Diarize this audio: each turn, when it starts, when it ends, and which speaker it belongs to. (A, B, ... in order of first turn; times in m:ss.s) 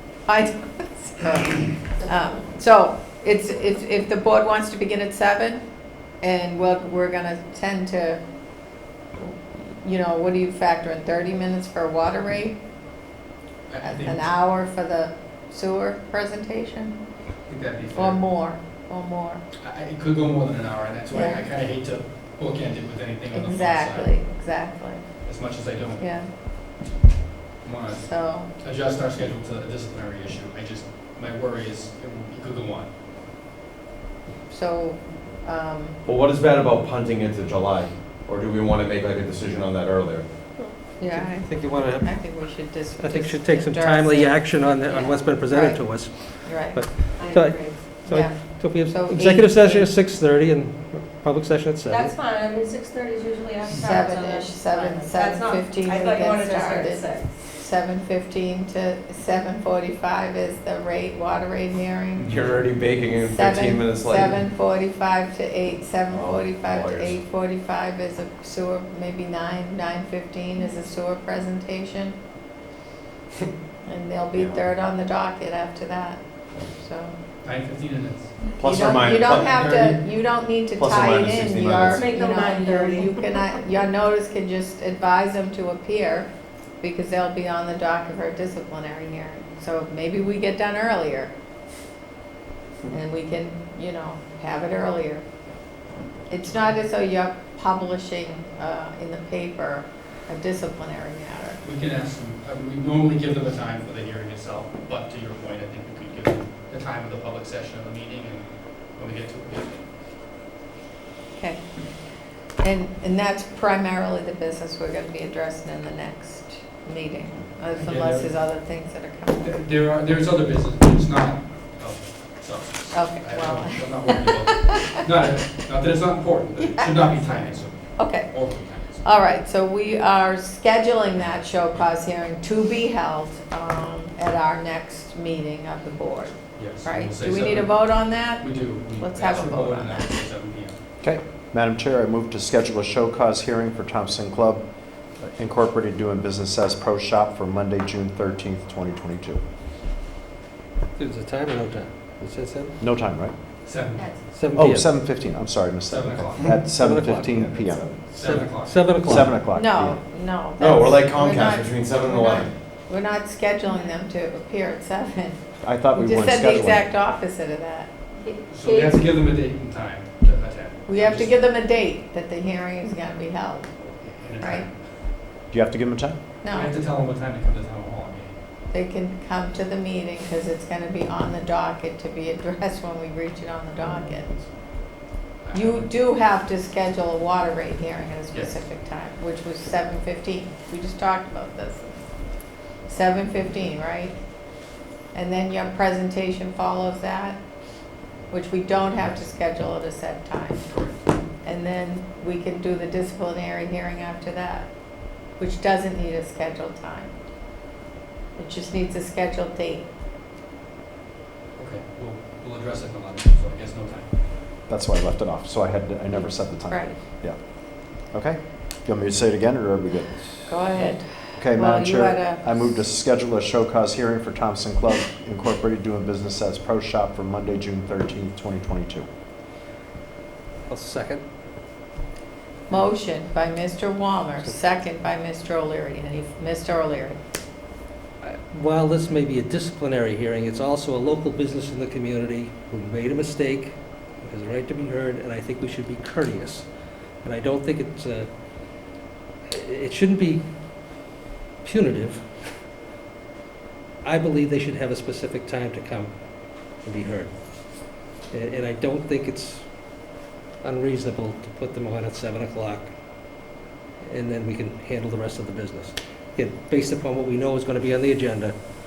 0:00.3-0:08.2 A
0:09.2-0:12.6 A
0:13.7-0:14.3 B
0:13.8-0:17.0 A
0:17.5-0:18.2 B
0:18.0-0:19.4 A
0:19.6-0:24.1 B
0:21.1-0:21.4 A
0:23.3-0:25.0 A
0:25.2-0:26.1 B
0:26.0-0:26.3 A
0:27.6-0:32.9 B
0:27.9-0:28.5 A
0:34.5-0:36.0 A
0:36.1-0:40.3 C
0:41.0-0:46.8 A
0:41.1-0:52.1 D
0:47.2-0:47.9 E
0:48.0-0:49.9 A
0:51.9-0:57.5 E
0:53.8-1:02.6 A
1:02.3-1:04.4 C
1:03.2-1:12.2 A
1:06.1-1:07.2 C
1:13.8-1:17.2 A
1:14.4-1:14.7 C
1:17.4-1:18.5 B
1:18.6-1:19.6 C
1:18.6-1:26.3 A
1:19.2-1:20.0 B
1:20.8-1:22.1 C
1:22.0-1:23.6 E
1:26.8-1:31.3 A
1:32.9-1:35.2 A
1:36.3-1:41.6 A
1:36.5-1:36.8 B
1:41.6-1:49.8 B
1:51.4-1:51.7 A
1:52.6-1:59.5 A
1:57.7-1:58.3 B
1:59.4-2:09.0 B
2:02.9-2:04.9 A
2:06.6-2:06.9 A
2:08.0-2:08.5 A
2:09.0-2:20.1 A
2:16.6-2:20.8 B
2:21.0-2:24.6 F
2:25.2-2:29.4 F
2:31.0-2:32.7 D
2:32.8-2:33.3 F
2:33.6-2:34.2 B
2:34.0-2:34.2 E
2:34.3-2:34.9 D
2:34.5-2:37.9 F
2:35.8-2:36.6 B
2:36.6-2:37.5 D
2:37.3-2:38.0 C
2:38.1-2:38.9 B
2:38.1-2:39.3 D
2:39.0-2:40.0 F
2:39.5-2:45.4 A
2:40.6-2:42.5 C
2:45.6-2:46.9 F
2:46.0-2:47.9 A
2:48.2-2:49.0 E
2:48.5-2:51.4 B
2:50.9-2:53.7 A
2:53.8-2:54.7 B
2:54.4-2:54.7 A
2:55.5-2:56.2 F
2:56.4-2:56.7 A
2:56.5-2:58.4 B
2:58.7-3:04.5 A
3:05.4-3:05.9 B
3:05.5-3:12.0 A
3:08.3-3:08.6 B
3:12.8-3:14.2 A
3:15.1-3:17.4 A
3:18.3-3:20.7 A
3:20.7-3:21.0 B
3:21.4-3:27.1 A
3:28.4-3:29.8 A
3:31.6-3:34.1 B
3:34.7-3:40.8 F
3:36.1-3:37.0 A
3:40.5-3:42.8 A
3:41.3-3:49.1 F
3:50.7-3:51.2 D
3:52.7-3:57.2 A
3:58.2-4:06.7 D
4:07.2-4:08.3 D
4:09.5-4:10.4 D
4:11.6-4:12.2 D
4:14.0-4:16.1 D
4:16.7-4:19.7 D
4:20.6-4:22.9 D
4:24.0-4:28.6 D